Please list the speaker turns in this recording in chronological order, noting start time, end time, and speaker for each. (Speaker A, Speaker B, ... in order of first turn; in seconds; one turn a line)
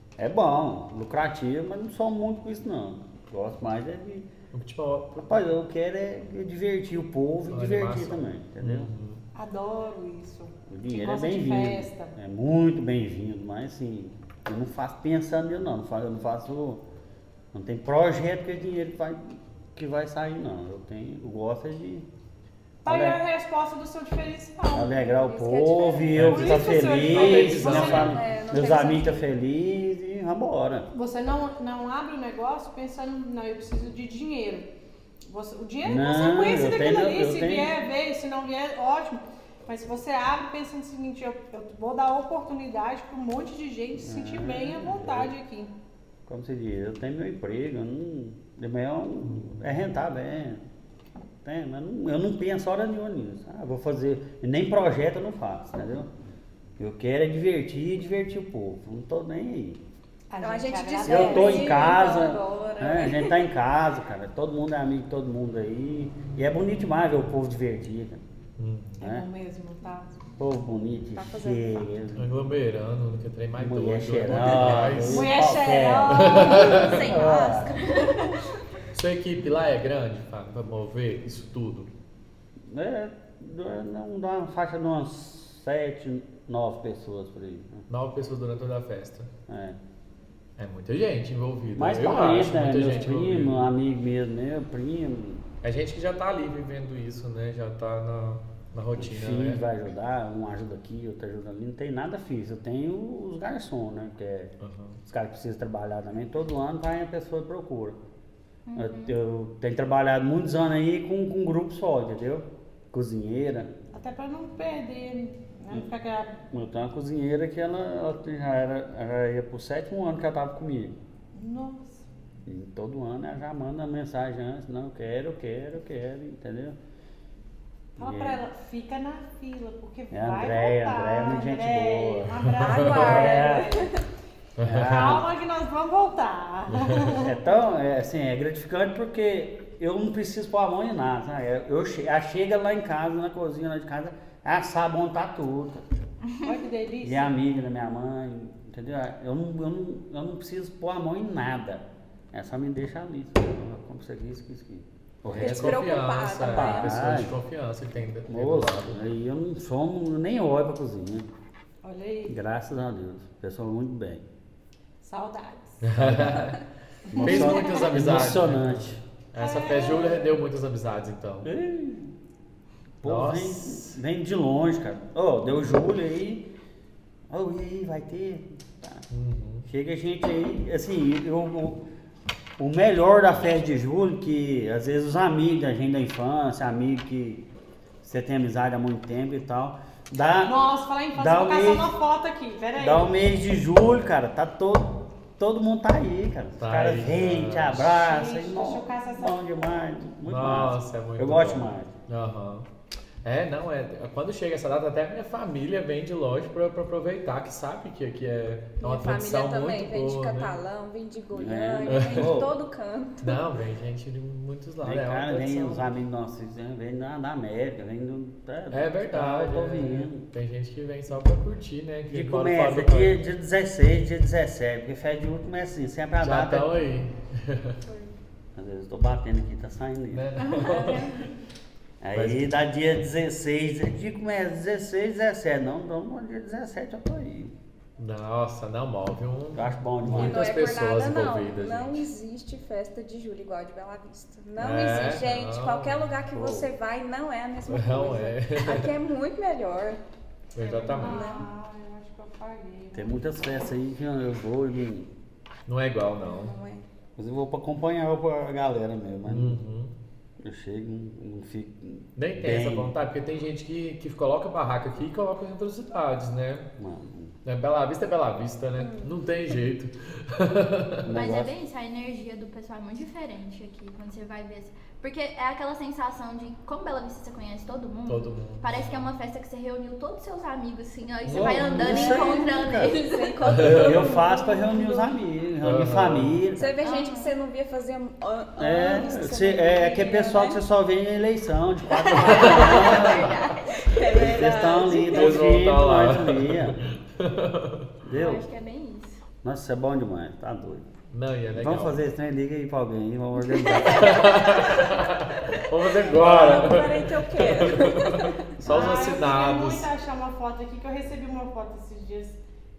Speaker A: 0.2-4.3
Speaker B: 4.5-5.5
Speaker A: 5.2-8.9
Speaker B: 7.5-9.2
Speaker C: 9.3-12.2
Speaker A: 10.7-16.8
Speaker A: 17.5-22.1
Speaker C: 22.8-25.0
Speaker A: 22.9-23.2
Speaker A: 24.7-30.9
Speaker D: 25.1-26.2
Speaker B: 26.1-28.2
Speaker C: 26.2-28.2
Speaker D: 27.4-29.2
Speaker C: 30.9-34.7
Speaker C: 35.2-45.7
Speaker A: 35.8-37.7
Speaker A: 44.0-45.3
Speaker A: 46.3-50.6
Speaker B: 49.2-49.7
Speaker A: 51.4-56.1
Speaker A: 56.8-59.8
Speaker C: 60.3-62.1
Speaker D: 60.4-63.4
Speaker A: 61.1-68.2
Speaker B: 68.6-69.0
Speaker C: 69.0-70.1
Speaker A: 70.4-72.3
Speaker D: 71.2-71.8
Speaker B: 72.2-75.4
Speaker A: 73.6-78.0
Speaker C: 75.0-76.9
Speaker B: 76.1-77.1
Speaker E: 76.3-78.5
Speaker B: 78.9-81.9
Speaker A: 82.7-87.8
Speaker B: 87.9-89.3
Speaker A: 89.5-89.8
Speaker B: 90.6-93.7
Speaker A: 91.8-95.5
Speaker B: 95.6-99.6
Speaker A: 99.0-104.5
Speaker B: 104.6-105.0
Speaker A: 105.1-108.0
Speaker E: 108.7-109.2
Speaker A: 108.8-113.7
Speaker C: 113.9-116.4
Speaker A: 116.5-121.0
Speaker C: 121.3-122.1
Speaker A: 122.5-126.8
Speaker A: 128.0-128.4
Speaker C: 128.0-133.9
Speaker A: 130.1-133.9
Speaker D: 132.6-134.0
Speaker B: 132.7-133.2
Speaker B: 134.6-135.2
Speaker A: 134.6-135.3
Speaker C: 134.8-137.3
Speaker A: 137.0-145.8
Speaker C: 146.4-147.4
Speaker A: 147.0-155.9
Speaker B: 155.3-159.1
Speaker D: 155.3-157.2
Speaker A: 156.4-157.3
Speaker A: 158.3-161.3
Speaker C: 161.8-162.4
Speaker A: 162.3-164.2
Speaker C: 165.0-165.8
Speaker B: 165.8-166.7
Speaker A: 166.0-166.5
Speaker C: 167.1-167.9
Speaker A: 167.1-169.0
Speaker B: 167.2-171.5
Speaker C: 169.4-170.3
Speaker A: 171.4-172.2
Speaker A: 173.0-176.5
Speaker B: 173.0-173.9
Speaker A: 177.3-179.0
Speaker B: 179.1-179.7
Speaker A: 179.7-181.8
Speaker A: 182.6-187.4
Speaker A: 188.0-190.6
Speaker C: 190.4-193.1
Speaker A: 191.2-191.9
Speaker A: 192.8-201.9
Speaker B: 196.6-197.9
Speaker C: 197.9-199.4
Speaker B: 200.3-202.7
Speaker B: 203.2-210.5
Speaker D: 208.8-213.4
Speaker A: 211.3-212.5
Speaker B: 211.8-212.4
Speaker B: 213.2-215.9
Speaker A: 214.8-220.3
Speaker B: 218.7-223.2
Speaker A: 222.1-226.7
Speaker B: 226.2-227.8
Speaker D: 227.9-228.1
Speaker A: 228.6-230.3
Speaker B: 230.1-231.3
Speaker E: 230.4-230.9
Speaker D: 230.6-231.3
Speaker A: 232.0-237.5
Speaker B: 232.1-232.6
Speaker B: 238.0-242.1
Speaker A: 239.5-240.5
Speaker D: 240.1-250.0
Speaker B: 244.6-246.1
Speaker A: 246.3-246.7
Speaker B: 247.7-248.9
Speaker B: 250.6-251.4
Speaker C: 250.6-253.2
Speaker D: 250.8-251.5
Speaker A: 252.9-255.1
Speaker B: 255.7-256.6
Speaker D: 256.2-256.8
Speaker A: 257.2-259.6
Speaker B: 259.3-259.9
Speaker A: 260.4-262.9
Speaker B: 262.2-266.7
Speaker A: 266.8-267.3
Speaker B: 267.4-271.1
Speaker D: 268.8-269.2
Speaker A: 271.0-271.5
Speaker E: 271.1-283.4
Speaker B: 278.1-279.1
Speaker B: 281.2-281.7
Speaker A: 281.3-283.0
Speaker D: 281.7-285.1
Speaker B: 283.5-284.1
Speaker A: 283.6-286.7
Speaker B: 285.6-286.5
Speaker D: 286.6-290.6
Speaker E: 286.8-287.3
Speaker A: 288.6-293.4
Speaker E: 291.9-294.2
Speaker B: 292.2-293.4
Speaker D: 293.7-295.3
Speaker A: 294.1-296.8
Speaker B: 295.0-297.9
Speaker A: 298.0-298.4
Speaker E: 298.1-299.2
Speaker A: 299.4-300.9
Speaker B: 301.1-302.0
Speaker A: 301.5-304.6
Speaker E: 303.6-305.6
Speaker B: 303.8-309.9
Speaker D: 306.1-308.5
Speaker A: 306.2-306.8
Speaker A: 308.7-309.0
Speaker C: 308.7-312.4